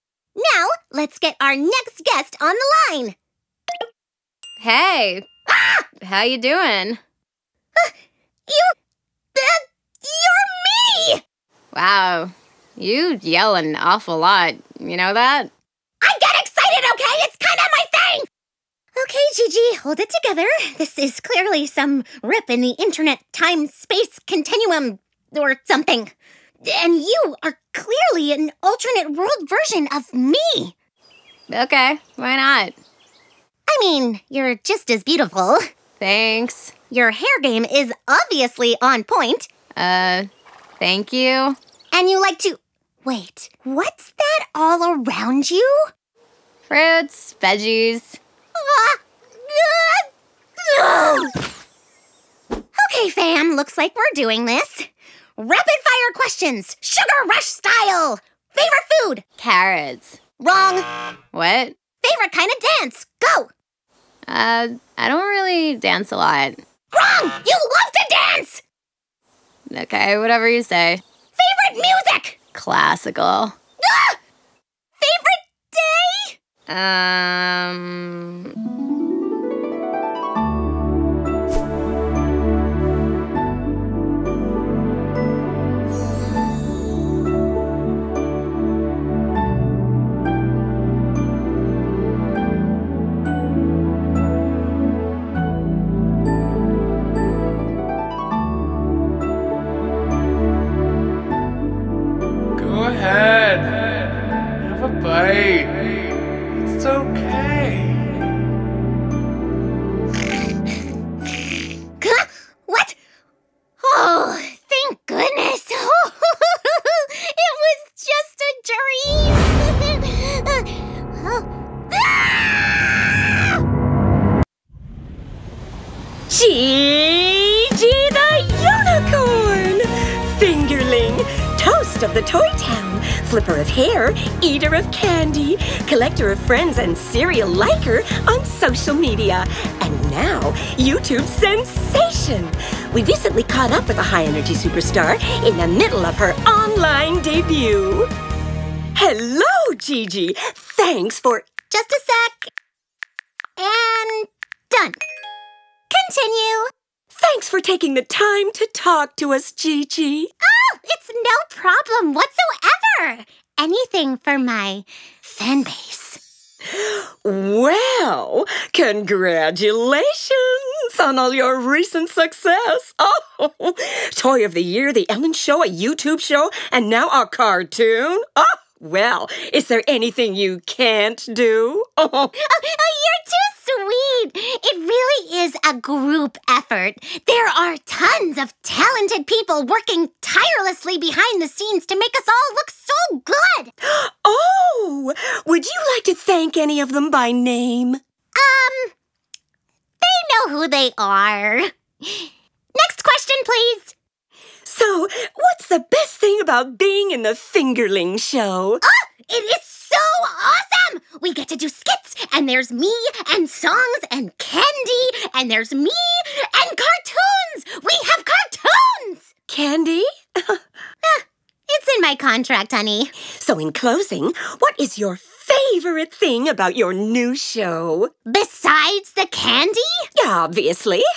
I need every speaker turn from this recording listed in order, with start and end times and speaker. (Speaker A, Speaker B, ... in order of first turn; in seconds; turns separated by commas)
Speaker A: 0.3-3.1, Speaker B: 4.6-5.3, Speaker A: 5.5-5.9, Speaker B: 6.0-7.0, Speaker A: 8.5-8.7, Speaker A: 9.3-11.2, Speaker B: 11.7-15.5, Speaker A: 16.0-18.3, Speaker A: 18.9-30.7, Speaker B: 31.5-32.7, Speaker A: 33.7-35.6, Speaker B: 36.0-36.7, Speaker A: 36.9-39.5, Speaker B: 39.8-40.3, Speaker B: 40.8-41.5, Speaker A: 41.9-45.9, Speaker B: 46.7-48.2, Speaker A: 48.6-50.1, Speaker A: 50.6-51.4, Speaker A: 52.8-59.4, Speaker B: 59.4-60.1, Speaker A: 60.4-60.9, Speaker B: 61.3-61.7, Speaker A: 62.0-63.5, Speaker B: 64.3-66.6, Speaker A: 66.9-68.6, Speaker B: 69.7-71.0, Speaker A: 71.3-72.4, Speaker B: 72.5-73.5, Speaker A: 73.8-74.2, Speaker A: 75.0-76.3, Speaker B: 76.7-78.3, Speaker B: 102.9-103.5, Speaker B: 105.0-105.7, Speaker B: 106.8-107.8, Speaker A: 112.0-113.0, Speaker A: 113.8-123.5, Speaker C: 126.3-148.1, Speaker C: 148.9-151.4, Speaker A: 151.7-152.5, Speaker A: 153.6-155.0, Speaker A: 155.9-156.7, Speaker C: 157.1-160.3, Speaker A: 160.4-166.2, Speaker C: 166.7-182.3, Speaker A: 182.4-193.7, Speaker C: 193.8-198.0, Speaker A: 198.4-198.9, Speaker A: 200.0-203.9, Speaker C: 204.6-208.8, Speaker A: 208.8-219.3, Speaker C: 219.5-220.6, Speaker A: 221.0-223.1, Speaker C: 223.4-228.1, Speaker A: 228.3-230.1, Speaker C: 230.2-231.1